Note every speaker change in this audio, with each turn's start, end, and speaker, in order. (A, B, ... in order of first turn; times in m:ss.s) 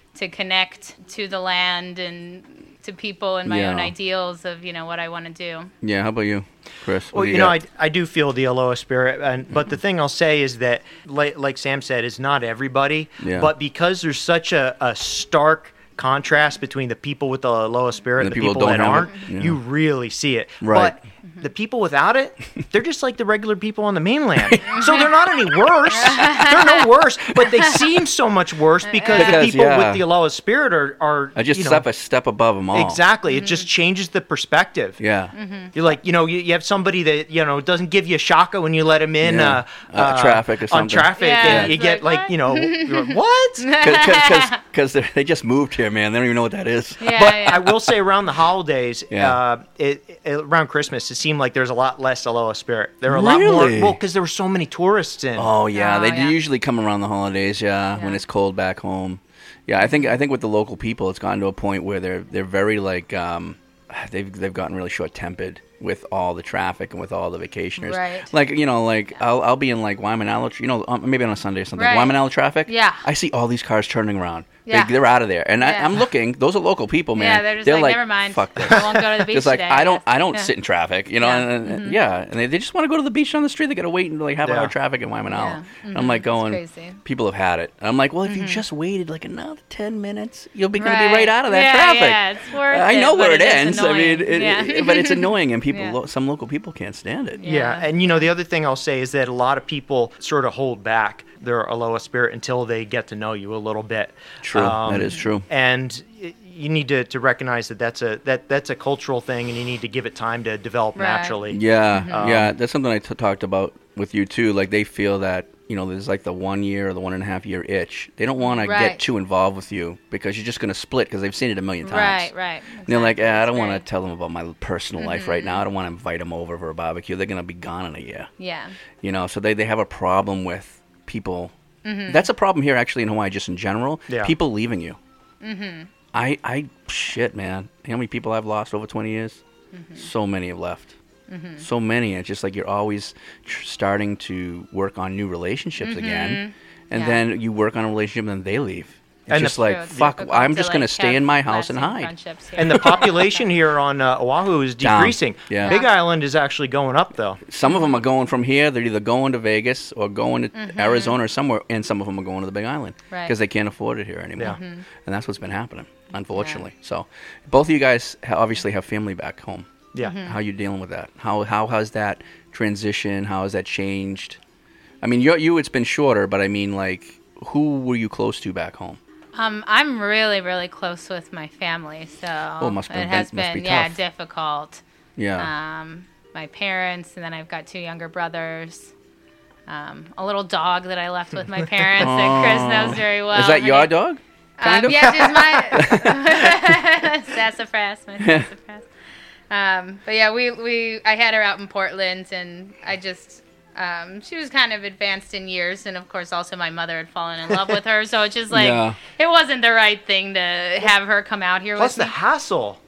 0:00.1-0:05.7 A
0:03.4-0:03.9 B
0:05.8-0:07.6 B
0:07.1-0:31.8 C
0:13.2-0:13.5 B
0:18.2-0:19.6 B
0:20.6-0:20.9 B
0:24.7-0:25.1 A
0:25.9-0:26.8 A
0:28.8-0:29.4 A
0:29.1-0:30.0 B
0:31.3-0:33.0 B
0:32.7-0:35.0 C
0:33.3-0:33.6 A
0:35.0-0:35.3 B
0:35.3-0:35.7 A
0:35.7-0:43.7 C
0:39.2-0:41.8 B
0:41.2-0:44.6 A
0:43.8-0:47.0 B
0:47.0-0:47.7 A
0:47.1-0:55.5 C
0:49.1-0:49.4 B
0:53.1-0:54.0 B
0:55.4-1:37.4 B
0:55.7-0:56.4 A
0:58.0-0:58.2 A
0:59.8-1:00.1 A
1:07.8-1:08.3 A
1:11.7-1:13.0 A
1:14.6-1:14.9 A
1:15.6-1:16.0 A
1:17.1-1:20.5 A
1:21.2-1:22.0 A
1:24.4-1:24.7 C
1:25.3-1:27.0 A
1:28.2-1:28.6 A
1:30.8-1:36.0 A
1:37.4-1:38.3 A
1:37.4-1:52.5 C
1:44.4-1:45.4 B
1:51.0-1:51.3 A
1:51.5-2:02.3 B
1:51.9-1:52.2 A
1:58.4-1:59.1 A
2:01.8-2:03.8 A
2:02.8-2:08.3 B
2:05.0-2:05.6 A
2:08.4-2:08.7 A
2:09.0-2:11.5 B
2:11.8-2:12.3 A
2:12.1-2:15.0 B
2:15.4-2:15.9 A
2:16.1-2:19.4 B
2:19.7-2:20.1 A
2:20.0-2:20.9 B
2:21.3-2:21.6 A
2:21.6-2:32.1 B
2:25.8-2:27.2 A
2:29.3-2:30.1 C
2:29.6-2:33.4 A
2:32.6-2:37.4 C
2:34.8-2:35.8 B
2:35.6-2:35.9 A
2:37.5-2:49.7 B
2:37.6-2:38.0 A
2:40.5-2:41.2 A
2:44.4-2:44.8 A
2:46.3-2:46.7 A
2:50.0-2:50.4 A
2:50.2-2:54.4 B
2:55.0-2:59.0 B
2:59.3-3:04.8 A
3:02.6-3:03.9 B
3:05.2-3:05.5 B
3:05.4-3:08.9 A
3:09.7-3:13.9 A
3:12.0-3:16.6 B
3:14.6-3:18.9 A
3:14.9-3:15.9 C
3:18.2-3:18.5 B
3:19.5-3:32.1 A
3:28.5-3:29.0 B
3:31.8-3:32.8 C